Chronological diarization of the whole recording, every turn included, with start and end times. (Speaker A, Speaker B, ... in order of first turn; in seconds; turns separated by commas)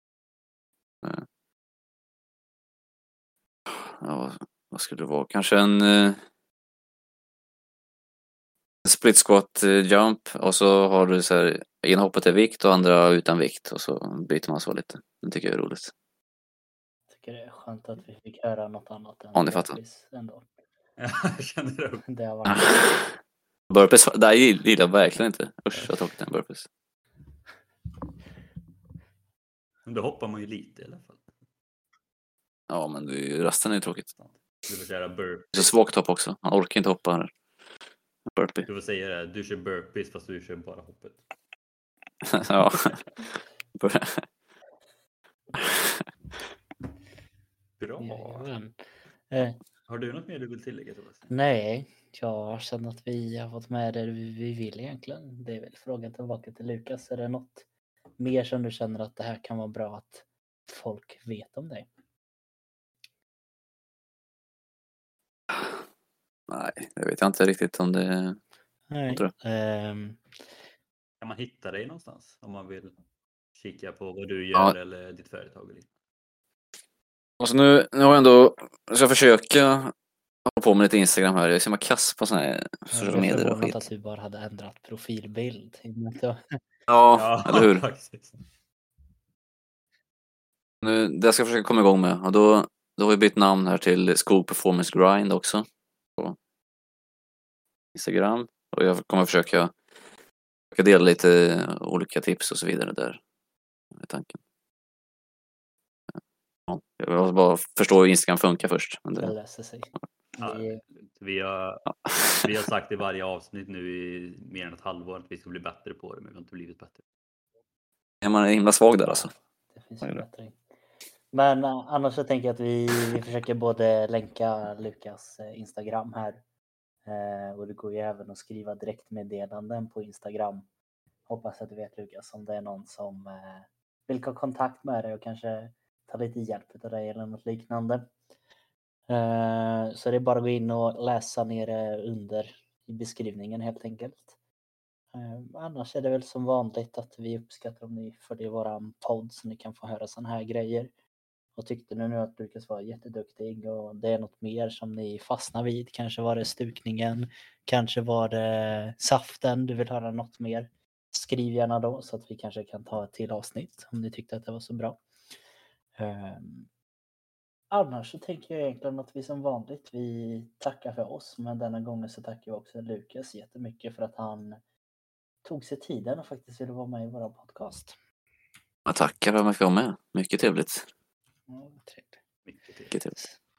Speaker A: 3.7-6.2, Speaker A: 8.8-15.9, Speaker B: 17.1-20.4, Speaker A: 19.4-19.8, Speaker C: 21.0-22.1, Speaker B: 22.1-22.9, Speaker A: 22.5-22.8, Speaker A: 23.7-26.7, Speaker C: 29.9-31.3, Speaker A: 32.7-34.1, Speaker C: 34.1-35.7, Speaker A: 35.5-37.3, Speaker A: 38.3-38.7, Speaker C: 38.7-41.2, Speaker A: 42.2-43.0, Speaker A: 43.8-44.2, Speaker A: 45.6-46.0, Speaker C: 47.8-48.5, Speaker B: 48.0-48.8, Speaker B: 49.3-49.6, Speaker C: 49.9-51.3, Speaker B: 51.3-57.7, Speaker B: 58.2-61.9, Speaker A: 65.5-65.8, Speaker A: 66.5-68.4, Speaker B: 68.9-70.3, Speaker C: 71.2-73.0, Speaker C: 73.5-75.9, Speaker A: 77.4-79.9, Speaker A: 80.5-83.8, Speaker B: 82.9-86.6, Speaker A: 86.9-87.8, Speaker C: 87.1-88.4, Speaker A: 90.8-95.7, Speaker A: 97.9-99.7, Speaker A: 100.7-103.2, Speaker A: 104.0-104.4, Speaker A: 106.7-109.3, Speaker B: 109.2-110.8, Speaker C: 110.4-117.0, Speaker A: 112.0-112.4, Speaker A: 118.2-119.3, Speaker B: 119.0-120.6, Speaker B: 121.3-126.4, Speaker B: 127.0-130.7, Speaker B: 131.3-138.1, Speaker B: 139.1-144.3, Speaker B: 145.1-150.9, Speaker B: 151.6-165.0, Speaker B: 166.0-166.7, Speaker B: 167.7-174.6, Speaker B: 175.4-178.0, Speaker A: 178.9-180.9, Speaker B: 181.5-182.2, Speaker C: 182.5-183.0